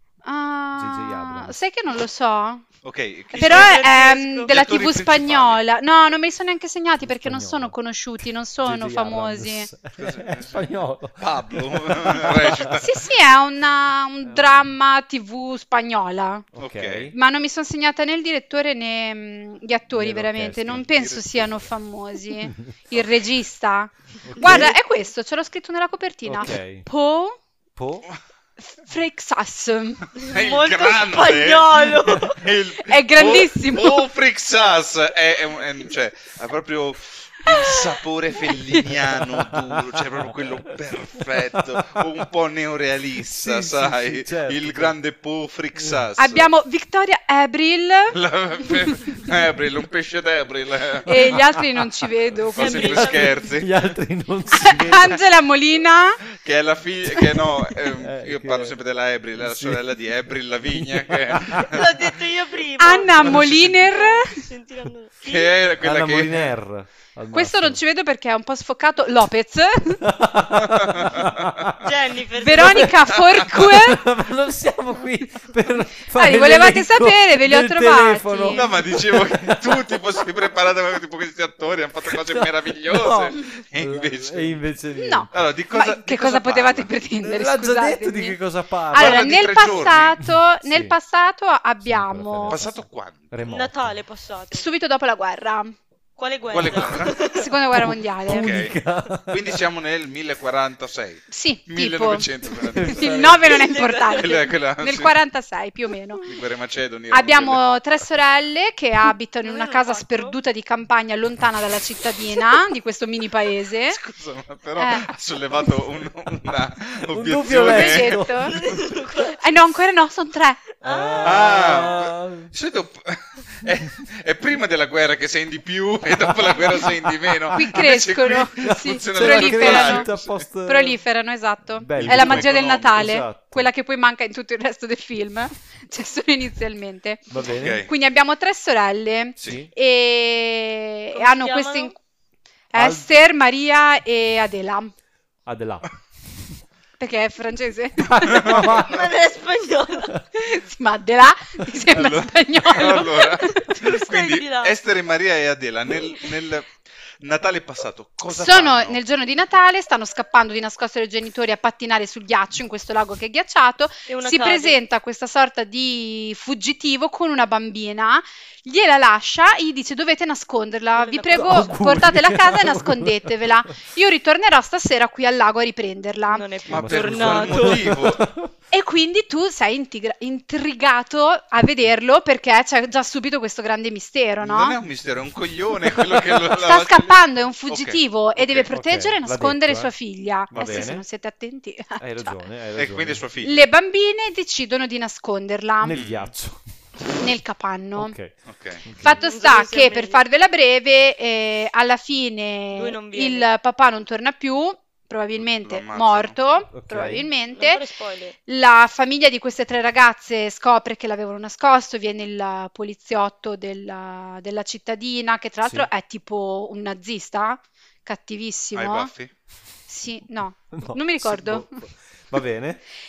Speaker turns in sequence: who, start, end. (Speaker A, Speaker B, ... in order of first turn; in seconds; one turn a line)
Speaker A: 0.2-2.6
Speaker B: 0.8-1.6
Speaker C: 2.8-3.9
Speaker D: 3.3-4.5
Speaker A: 3.3-9.7
Speaker C: 4.5-5.6
Speaker B: 7.0-12.8
Speaker C: 10.0-13.0
Speaker A: 12.7-16.4
Speaker B: 14.2-14.7
Speaker B: 16.6-17.1
Speaker C: 16.6-17.1
Speaker A: 17.1-27.4
Speaker B: 19.9-20.9
Speaker C: 20.8-21.6
Speaker B: 22.4-22.7
Speaker B: 24.2-24.7
Speaker B: 26.2-26.9
Speaker B: 27.7-28.1
Speaker A: 28.6-30.0
Speaker C: 30.2-46.5
Speaker D: 30.2-32.4
Speaker A: 32.8-34.1
Speaker B: 39.1-42.1
Speaker B: 43.2-44.9
Speaker A: 46.2-48.2
Speaker C: 48.1-51.3
Speaker A: 48.7-49.0
Speaker A: 51.0-53.2
Speaker B: 51.1-51.8
Speaker C: 52.5-53.7
Speaker D: 52.6-53.5
Speaker B: 52.9-55.2
Speaker A: 54.6-56.2
Speaker C: 56.4-61.9
Speaker B: 58.0-58.8
Speaker B: 59.4-59.9
Speaker B: 60.7-61.7
Speaker D: 61.6-65.5
Speaker A: 62.8-64.4
Speaker C: 63.2-63.8
Speaker C: 65.2-66.5
Speaker B: 65.8-67.8
Speaker A: 67.3-70.0
Speaker B: 70.0-71.8
Speaker C: 70.6-71.5
Speaker D: 71.8-72.9
Speaker A: 72.4-74.0
Speaker B: 72.6-72.9
Speaker C: 73.1-73.4
Speaker B: 73.5-80.0
Speaker A: 76.1-78.7
Speaker C: 78.5-84.6
Speaker B: 82.0-85.3
Speaker A: 85.0-88.4
Speaker C: 85.3-86.9
Speaker B: 87.2-91.0
Speaker A: 88.9-92.6
Speaker C: 88.9-90.2
Speaker B: 91.8-92.8
Speaker C: 92.5-93.3
Speaker B: 93.3-93.9
Speaker D: 93.4-94.6
Speaker A: 94.5-95.8
Speaker D: 96.2-97.5
Speaker C: 96.5-97.2
Speaker A: 97.2-98.5
Speaker B: 97.8-99.6
Speaker C: 98.3-103.4
Speaker A: 101.3-106.2
Speaker B: 102.6-103.6
Speaker D: 103.4-104.5
Speaker C: 104.2-105.2
Speaker C: 106.2-107.9
Speaker A: 107.1-114.0
Speaker D: 109.4-110.3
Speaker C: 113.9-118.2
Speaker A: 114.8-115.1
Speaker B: 117.1-119.0
Speaker A: 117.5-118.5
Speaker D: 118.5-119.3
Speaker A: 119.4-120.6
Speaker D: 120.8-121.9
Speaker B: 120.8-122.5
Speaker C: 121.2-130.4
Speaker B: 126.2-127.8
Speaker A: 127.5-130.1
Speaker B: 128.6-131.0
Speaker A: 130.7-141.9
Speaker B: 131.8-133.7
Speaker C: 132.0-133.0
Speaker B: 137.3-137.9
Speaker C: 137.5-137.9
Speaker B: 139.4-139.7
Speaker D: 141.1-141.9
Speaker A: 142.7-144.9
Speaker B: 142.7-143.1
Speaker B: 145.4-145.9
Speaker A: 147.0-148.6
Speaker B: 148.0-149.1
Speaker C: 148.2-148.9
Speaker D: 148.8-150.2
Speaker A: 150.4-153.9
Speaker C: 151.9-159.0
Speaker D: 153.5-154.8
Speaker A: 158.3-176.4
Speaker D: 164.1-164.8
Speaker D: 170.9-171.9
Speaker B: 171.3-173.6
Speaker D: 176.3-178.1
Speaker C: 176.7-178.2
Speaker B: 176.7-178.5
Speaker A: 178.7-184.8
Speaker C: 184.4-188.7
Speaker A: 186.5-192.4
Speaker B: 188.7-189.9
Speaker B: 190.5-191.0
Speaker B: 192.0-193.2
Speaker C: 192.8-193.7
Speaker A: 193.4-196.0
Speaker B: 195.8-196.6
Speaker C: 195.9-196.3
Speaker A: 197.2-198.2
Speaker B: 197.9-199.2
Speaker C: 198.4-198.8
Speaker A: 199.0-207.8
Speaker D: 199.1-200.2
Speaker D: 202.7-203.5
Speaker C: 205.4-206.3
Speaker B: 206.7-207.3
Speaker D: 207.5-208.3
Speaker A: 208.5-219.1
Speaker B: 215.6-215.9
Speaker C: 218.7-219.3
Speaker A: 219.9-221.8
Speaker B: 220.7-222.8